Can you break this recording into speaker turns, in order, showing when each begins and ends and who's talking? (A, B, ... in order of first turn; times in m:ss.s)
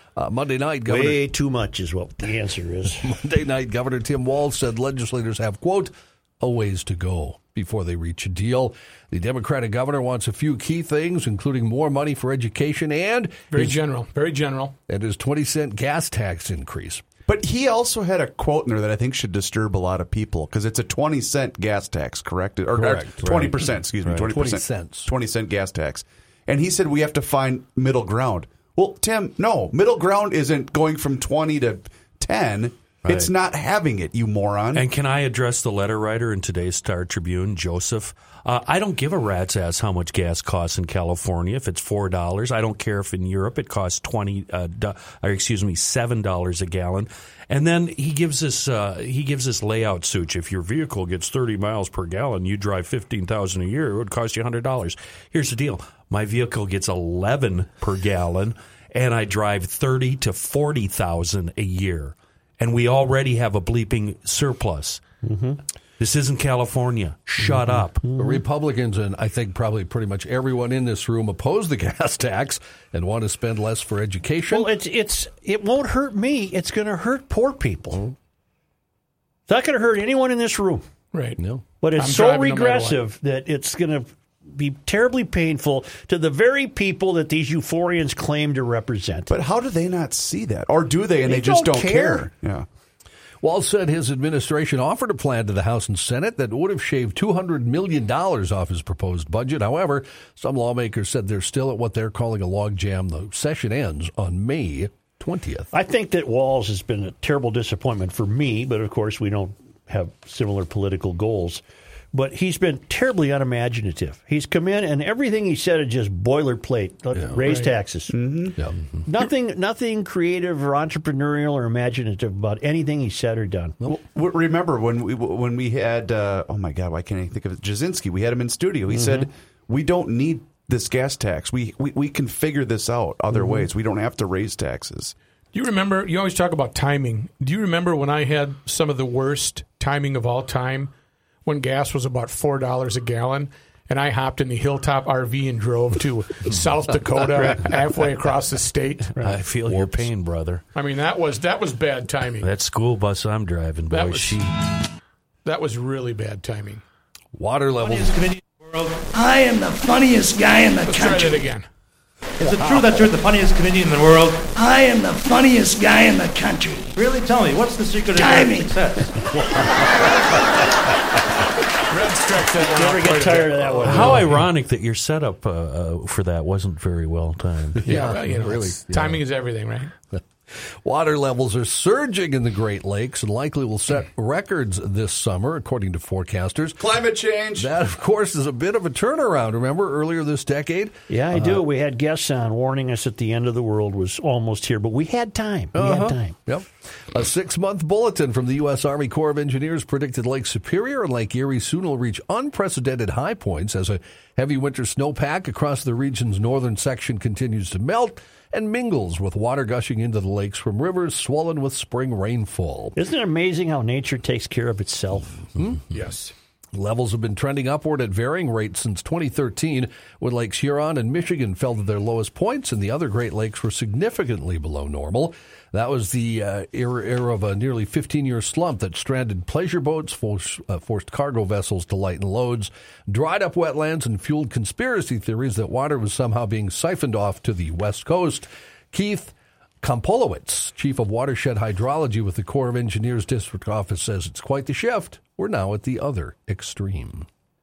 0:00.2-0:01.2 A
0:00.9-0:03.1 B
0:03.0-0:13.8 A
0:13.5-0:14.7 C
0:14.9-0:17.0 A
0:17.2-0:34.8 D
0:22.7-0:25.1 A
0:33.0-0:33.3 E
0:34.7-1:05.0 E
1:05.2-1:05.6 B
1:06.0-1:08.0 E
1:07.7-1:08.4 B
1:08.1-1:14.7 A
1:14.5-1:18.0 B
1:19.5-1:20.8 B
1:21.1-1:21.4 C
1:21.4-1:21.6 A
1:21.8-1:29.4 B
1:21.9-1:23.0 C
1:29.3-1:32.6 D
1:31.2-1:32.3 B
1:33.4-1:45.7 A
1:45.7-1:51.6 B
1:52.1-1:58.2 B
1:57.1-1:57.4 A
1:57.4-1:57.7 C
1:58.1-1:58.6 D
1:59.0-2:03.8 B
2:03.8-2:15.1 D
2:15.5-2:20.9 C
2:21.4-2:29.1 C
2:29.2-2:30.6 E
2:30.7-2:32.5 C
2:32.4-2:34.5 E
2:33.9-2:34.4 C
2:35.4-2:36.8 C
2:37.3-2:38.2 A
2:37.8-2:41.4 F
2:40.8-2:41.7 C
2:42.4-2:49.4 F
2:51.9-2:54.3 C
2:52.6-2:54.3 B
2:53.8-2:58.0 E
2:57.8-2:59.2 A
2:57.8-2:59.9 C
3:00.8-3:06.8 A
3:06.8-3:07.8 D
3:07.6-3:11.6 A
3:11.1-3:16.4 B
3:15.7-3:32.9 A
3:33.0-3:35.5 B
3:35.6-3:36.0 A
3:35.9-3:36.3 C
3:36.7-4:07.3 A